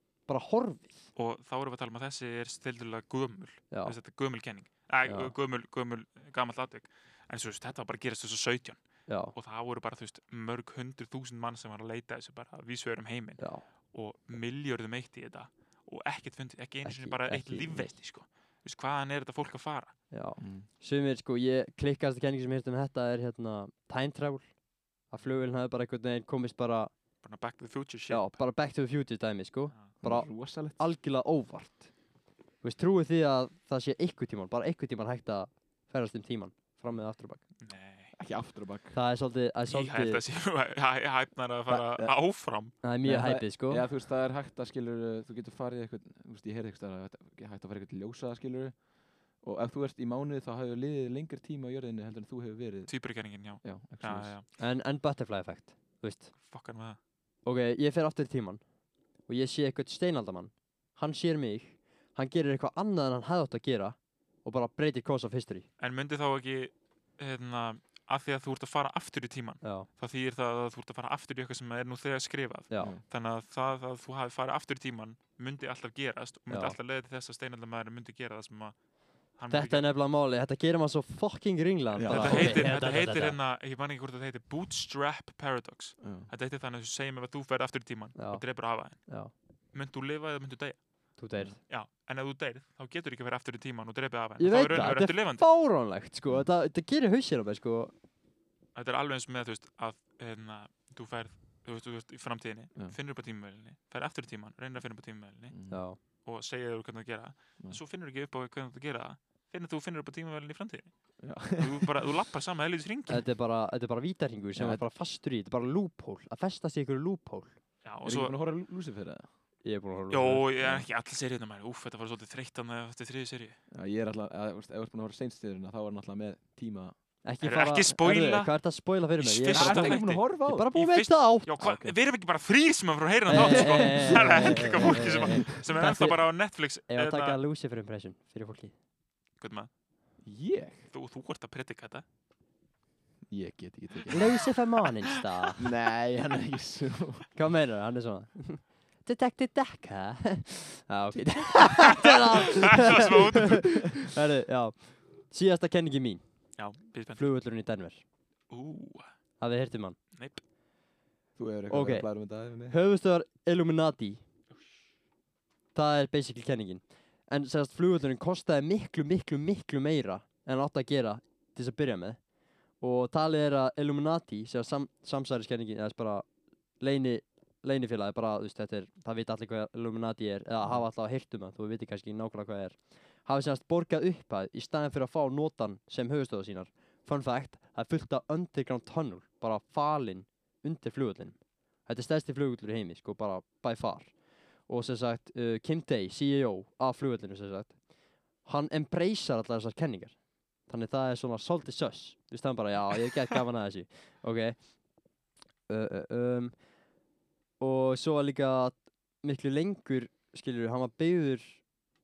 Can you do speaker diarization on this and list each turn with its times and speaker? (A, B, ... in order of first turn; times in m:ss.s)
0:00.3-0:01.0 A
0:01.2-0:08.8 B
0:05.0-0:05.3 A
0:09.1-0:09.3 A
0:09.3-0:19.9 B
0:13.4-0:13.6 A
0:16.8-0:17.9 A
0:20.1-0:24.5 A
0:20.4-0:20.7 C
0:25.1-0:26.9 A
0:27.2-0:28.4 B
0:28.1-0:31.9 A
0:30.0-0:30.8 C
0:32.6-0:37.4 A
0:37.6-0:38.1 B
0:38.2-0:39.0 C
0:38.9-0:40.2 A
0:39.7-0:42.7 B
0:41.7-0:42.1 C
0:42.8-0:43.9 A
0:43.0-0:48.8 C
0:49.4-0:52.9 C
0:52.9-0:54.4 B
0:53.6-0:54.3 C
0:54.6-0:56.3 A
0:56.4-0:57.0 B
0:57.4-0:58.6 A
0:59.3-1:05.7 A
1:05.8-1:18.8 B
1:09.6-1:09.9 A
1:12.7-1:12.9 A
1:16.5-1:16.8 A
1:19.4-1:19.9 B
1:19.5-1:23.4 A
1:21.9-1:22.7 C
1:22.1-1:29.1 B
1:26.0-1:26.3 C
1:28.2-1:29.3 A
1:29.7-1:31.0 B
1:31.2-1:31.6 A
1:31.7-1:35.4 B
1:34.4-1:37.9 A
1:38.7-1:45.7 B
1:45.5-1:45.8 C
1:45.7-1:46.0 A
1:46.2-1:53.2 B
1:51.2-1:52.0 C
1:53.1-1:57.5 A
1:54.6-1:54.8 C
1:57.8-1:58.4 B
1:58.0-1:59.2 C
1:59.6-2:00.5 A
2:00.1-2:03.6 B
2:03.7-2:06.9 C
2:07.2-2:11.9 A
2:07.4-2:08.5 B
2:09.2-2:17.4 B
2:09.5-2:10.7 C
2:13.3-2:15.7 C
2:13.3-2:16.2 A
2:16.9-2:18.7 A
2:19.4-2:19.7 B
2:20.2-2:20.8 C
2:20.9-2:22.0 B
2:23.3-2:24.4 C
2:24.1-2:25.6 A
2:25.6-2:27.3 C
2:27.3-2:36.2 A
2:31.1-2:32.1 C
2:32.0-2:33.8 B
2:33.4-2:33.7 C
2:36.6-2:37.3 B
2:37.1-2:38.0 A
2:38.5-2:39.1 B
2:39.4-2:40.0 A
2:40.1-2:40.4 B
2:41.4-2:42.8 C
2:41.7-2:42.1 A
2:42.7-2:44.2 A
2:45.7-2:52.2 A
2:52.8-2:56.2 A
2:56.8-3:14.1 A
3:14.7-3:17.8 A
3:18.4-3:24.6 A
3:25.7-3:26.5 A
3:27.6-3:31.6 A